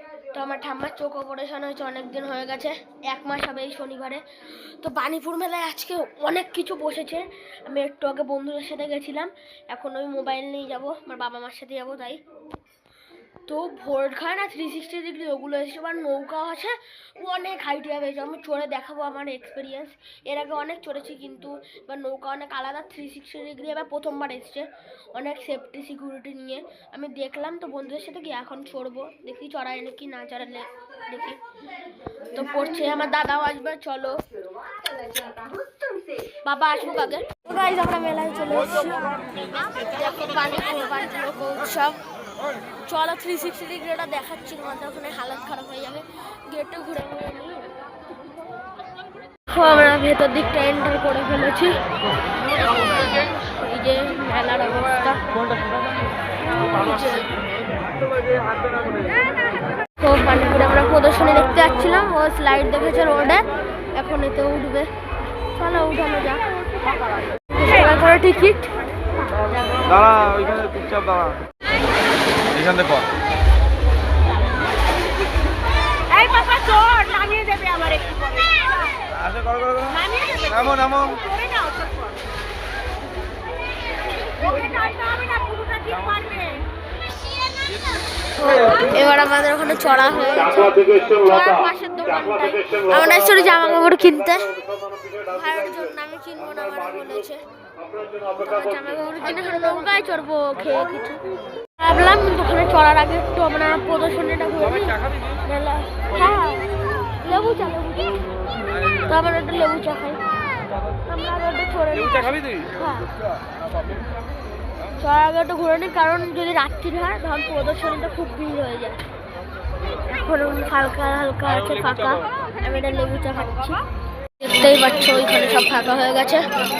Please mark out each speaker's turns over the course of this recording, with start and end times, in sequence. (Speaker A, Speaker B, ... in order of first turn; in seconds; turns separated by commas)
Speaker A: 0.2-12.2, Speaker A: 13.4-31.4, Speaker A: 32.3-34.2, Speaker A: 36.3-42.0, Speaker A: 42.8-47.7, Speaker A: 49.5-51.8, Speaker A: 52.5-55.2, Speaker A: 56.4-57.3, Speaker A: 60.0-64.9, Speaker A: 65.5-66.5, Speaker A: 67.5-68.7, Speaker B: 69.8-71.4, Speaker B: 72.5-73.1, Speaker A: 76.1-78.0, Speaker B: 79.2-79.9, Speaker A: 80.1-80.5, Speaker B: 80.5-81.2, Speaker A: 81.3-81.9, Speaker A: 84.4-86.6, Speaker A: 88.4-94.6, Speaker A: 95.1-97.4, Speaker A: 98.2-101.2, Speaker A: 101.8-110.2, Speaker A: 111.0-113.1, Speaker A: 115.0-119.0, Speaker A: 120.0-123.8, Speaker A: 124.4-126.5